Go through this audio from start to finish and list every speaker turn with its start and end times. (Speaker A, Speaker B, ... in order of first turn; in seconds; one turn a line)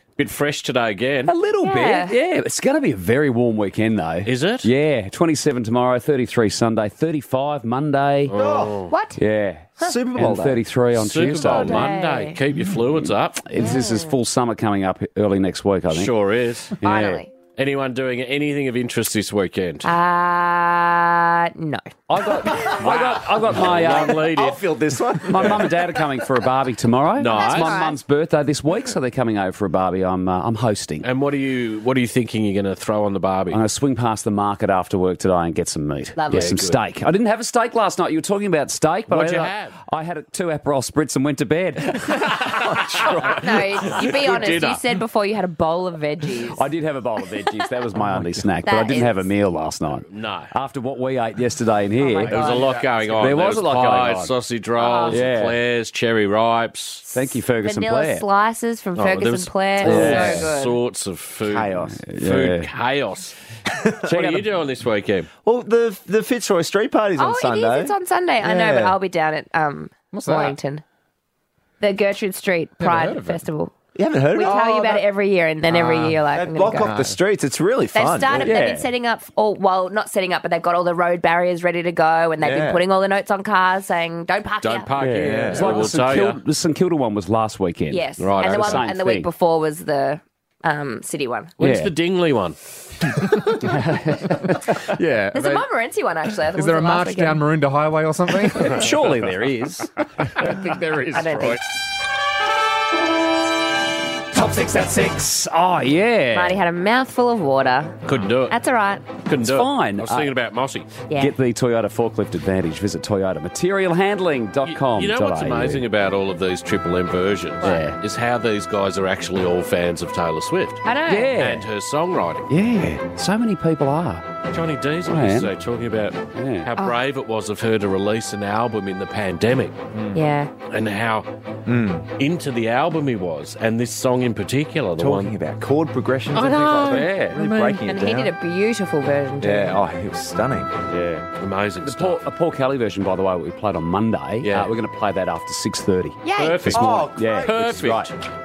Speaker A: 0.2-1.3
Speaker B: 1.3-8.3
Speaker C: 1.6-2.1
Speaker A: 4.2-4.7
Speaker A: 8.3-8.9
Speaker D: 8.3-8.8
Speaker C: 8.9-9.2
Speaker B: 9.2-11.9
Speaker D: 9.8-10.6
Speaker A: 10.9-13.4
Speaker C: 11.5-12.4
Speaker B: 13.4-16.1
Speaker C: 13.6-14.1
Speaker A: 15.9-16.8
Speaker B: 16.8-17.2
Speaker C: 16.8-17.3
Speaker A: 17.6-19.9
Speaker C: 19.8-21.8
Speaker B: 22.1-24.3
Speaker A: 22.7-24.6
Speaker D: 23.8-25.8
Speaker B: 25.3-31.1
Speaker A: 27.2-27.9
Speaker C: 27.3-28.0
Speaker A: 31.0-33.6
Speaker B: 33.5-42.3
Speaker C: 36.2-36.6
Speaker A: 36.3-36.8
Speaker A: 39.1-39.8
Speaker A: 42.5-44.8
Speaker D: 42.6-43.4
Speaker C: 43.3-46.6
Speaker B: 46.5-54.3
Speaker C: 48.6-49.3
Speaker A: 50.1-50.5
Speaker C: 52.0-52.6
Speaker A: 52.3-57.1
Speaker C: 54.8-55.2
Speaker B: 55.1-55.6
Speaker C: 57.1-60.8
Speaker B: 57.1-58.2
Speaker A: 59.0-63.4
Speaker B: 59.8-60.5
Speaker D: 60.0-60.2
Speaker D: 61.5-62.0
Speaker B: 62.0-62.7
Speaker A: 64.0-65.3
Speaker B: 64.1-64.5
Speaker D: 65.4-69.0
Speaker C: 67.2-70.8
Speaker E: 70.1-70.6
Speaker C: 71.8-73.7
Speaker E: 72.8-73.4
Speaker D: 74.0-75.0
Speaker C: 74.3-77.0
Speaker D: 75.7-78.6
Speaker E: 76.8-77.2
Speaker C: 77.9-84.9
Speaker B: 78.3-78.9
Speaker D: 82.4-82.8
Speaker A: 84.6-86.4
Speaker B: 85.0-89.3
Speaker D: 85.2-85.9
Speaker C: 87.9-91.5
Speaker A: 88.2-88.9
Speaker A: 91.6-92.6
Speaker B: 91.6-91.9
Speaker B: 93.6-94.8
Speaker E: 94.9-95.7
Speaker C: 95.3-97.4
Speaker E: 96.5-99.1
Speaker B: 98.6-99.9
Speaker E: 100.3-101.6
Speaker B: 100.4-101.4
Speaker C: 101.1-101.6
Speaker B: 104.3-106.7
Speaker C: 106.3-108.0
Speaker A: 108.0-108.6
Speaker C: 108.5-109.0
Speaker A: 109.3-110.9
Speaker B: 109.4-110.3
Speaker C: 111.1-111.3
Speaker B: 111.2-115.9
Speaker A: 114.7-120.8
Speaker B: 117.6-118.0
Speaker C: 120.8-121.4
Speaker B: 121.1-121.7
Speaker A: 121.4-122.5
Speaker B: 122.5-124.3
Speaker A: 124.5-129.8
Speaker B: 125.1-125.5
Speaker B: 126.3-126.7
Speaker C: 130.1-130.5
Speaker A: 130.7-131.3
Speaker D: 131.7-132.1
Speaker A: 132.2-135.3
Speaker D: 135.0-138.3
Speaker A: 136.3-137.8
Speaker B: 136.9-137.4
Speaker C: 137.9-139.8
Speaker D: 139.4-140.7
Speaker B: 140.9-141.3
Speaker A: 141.4-142.2
Speaker B: 141.8-148.1
Speaker A: 144.4-144.7
Speaker C: 146.2-146.8
Speaker A: 146.4-148.1
Speaker D: 146.7-147.7